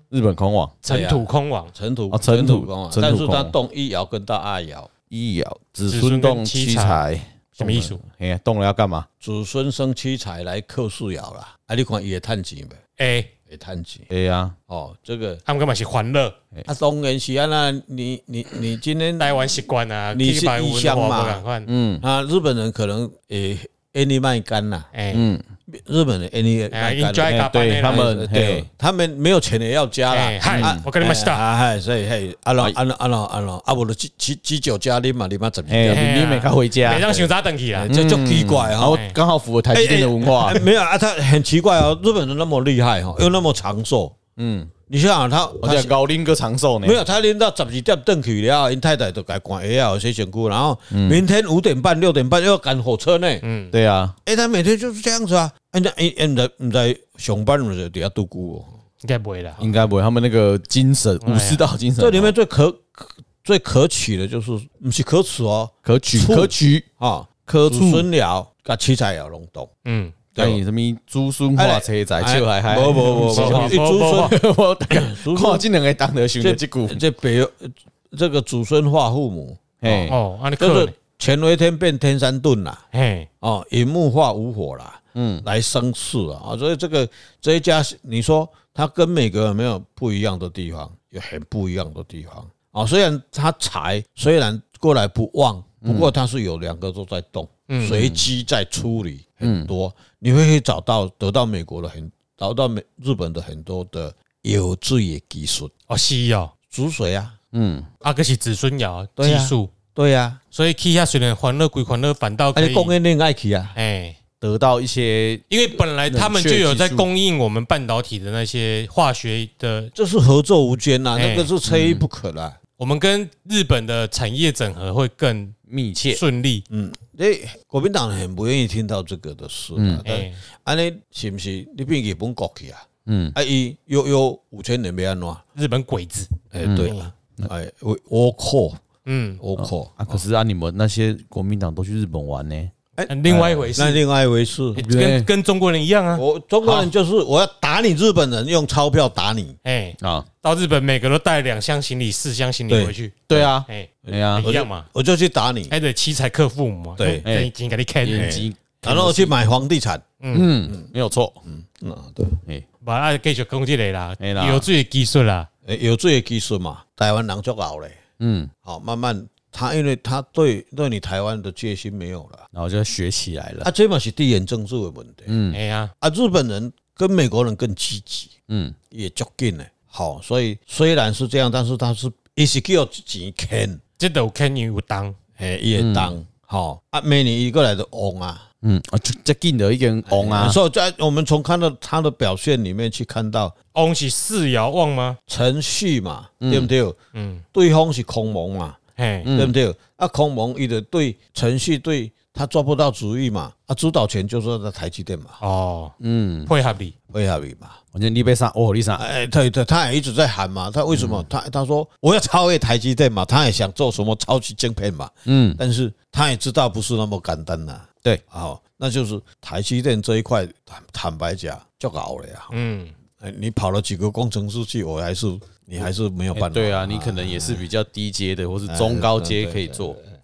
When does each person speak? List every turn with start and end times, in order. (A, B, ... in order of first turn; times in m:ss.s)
0:00.1-0:00.8 A
0:00.8-0:01.7 B
0:00.9-0:04.9 C
0:02.1-0:03.6 A
0:05.1-0:09.1 A
0:05.9-0:07.0 B
0:07.6-0:08.0 B
0:09.2-0:12.8 C
0:13.0-0:13.3 B
0:13.5-0:14.1 C
0:14.1-0:14.6 A
0:14.7-0:15.4 C
0:15.5-0:16.4 B
0:16.7-0:19.5 C
0:19.2-0:21.7 B
0:20.1-0:21.4 C
0:21.7-0:22.0 A
0:22.0-0:24.9 C
0:24.9-0:25.3 B
0:25.1-0:25.4 A
0:25.7-0:36.1 C
0:26.7-0:28.1 B
0:27.3-0:28.7 A
0:30.1-0:31.4 B
0:30.5-0:30.8 A
0:35.7-0:37.2 A
0:35.9-0:37.9 B
0:37.8-0:39.0 C
0:37.8-0:40.6 A
0:38.9-0:39.2 B
0:39.7-0:44.2 C
0:44.4-0:44.7 A
0:44.9-0:45.9 C
0:45.6-0:47.0 A
0:46.8-0:53.4 C
0:50.9-0:51.2 A
0:53.4-0:53.7 B
0:53.7-0:54.2 A
0:54.2-0:58.7 C
0:59.0-0:59.6 B
0:59.6-1:02.3 A
1:01.2-1:01.6 B
1:02.0-1:09.7 C
1:05.8-1:06.9 A
1:07.5-1:08.1 A
1:09.8-1:10.2 B
1:10.3-1:10.6 C
1:10.4-1:17.0 A
1:11.6-1:14.4 C
1:13.3-1:14.4 B
1:14.9-1:15.6 C
1:16.4-1:22.8 C
1:19.8-1:20.2 A
1:20.1-1:20.9 B
1:22.9-1:23.3 B
1:23.4-1:45.7 C
1:25.2-1:25.4 A
1:35.8-1:36.1 A
1:37.7-1:38.1 B
1:37.9-1:38.2 A
1:39.4-1:39.7 A
1:45.9-1:46.5 B
1:46.7-1:47.4 C
1:47.5-1:47.9 A
1:48.0-1:49.7 B
1:49.2-1:50.4 C
1:50.5-1:53.0 B
1:52.6-1:53.8 C
1:53.8-1:54.2 B
1:54.4-1:55.5 A
1:55.5-1:59.9 B
1:56.1-1:57.1 A
2:00.0-2:02.6 C
2:01.2-2:01.5 B
2:01.7-2:02.1 A
2:02.8-2:05.6 B
2:05.7-2:06.2 A
2:06.1-2:06.6 B
2:06.7-2:15.4 C
2:09.8-2:10.0 A
2:10.0-2:10.4 B
2:13.1-2:13.4 A
2:15.6-2:17.1 B
2:16.5-2:18.8 C
2:16.6-2:17.5 A
2:19.0-2:19.4 B
2:19.4-2:20.2 C
2:19.6-2:22.7 A
2:23.1-2:24.0 B
2:23.3-2:23.7 A
2:23.8-2:24.8 C
2:24.8-2:26.9 B
2:24.8-2:25.3 A
2:26.2-2:29.6 C
2:29.6-2:34.9 B
2:30.0-2:30.3 A
2:32.7-2:33.5 C
2:33.3-2:34.5 A
2:34.1-2:35.7 C
2:35.7-2:38.4 B
2:37.0-2:37.2 C
2:37.2-2:37.5 A
2:38.0-2:39.4 A
2:38.2-2:40.0 C
2:40.2-2:40.5 B
2:40.3-2:41.4 A
2:41.5-2:42.4 C
2:42.8-2:45.5 B
2:44.2-2:44.7 A
2:45.7-2:48.0 C
2:48.2-2:48.5 A
2:48.6-2:52.4 C
2:52.5-2:53.7 A
2:53.6-2:55.4 C
2:55.3-2:55.6 A
2:55.5-2:55.9 B
2:56.0-2:58.3 C
2:58.5-2:58.8 A
2:58.9-3:03.8 C
3:04.0-3:05.2 B
3:05.4-3:08.4 C
3:05.8-3:06.2 A
3:08.6-3:10.6 A
3:10.1-3:13.5 C
3:13.7-3:15.2 B
3:15.3-3:17.0 C
3:16.4-3:16.7 A
3:17.1-3:17.4 B
3:17.5-3:18.8 C
3:19.0-3:19.3 B
3:19.2-3:19.6 A
3:19.3-3:25.4 C
3:25.4-3:25.9 B
3:26.0-3:26.5 A
3:26.5-3:26.9 B
3:27.1-3:27.8 C
3:27.9-3:29.0 A
3:29.0-3:42.5 C
3:30.9-3:31.3 A
3:35.3-3:35.6 A
3:42.5-3:43.0 B
3:43.2-3:47.7 C
3:45.8-3:50.0 A
3:48.7-3:50.0 C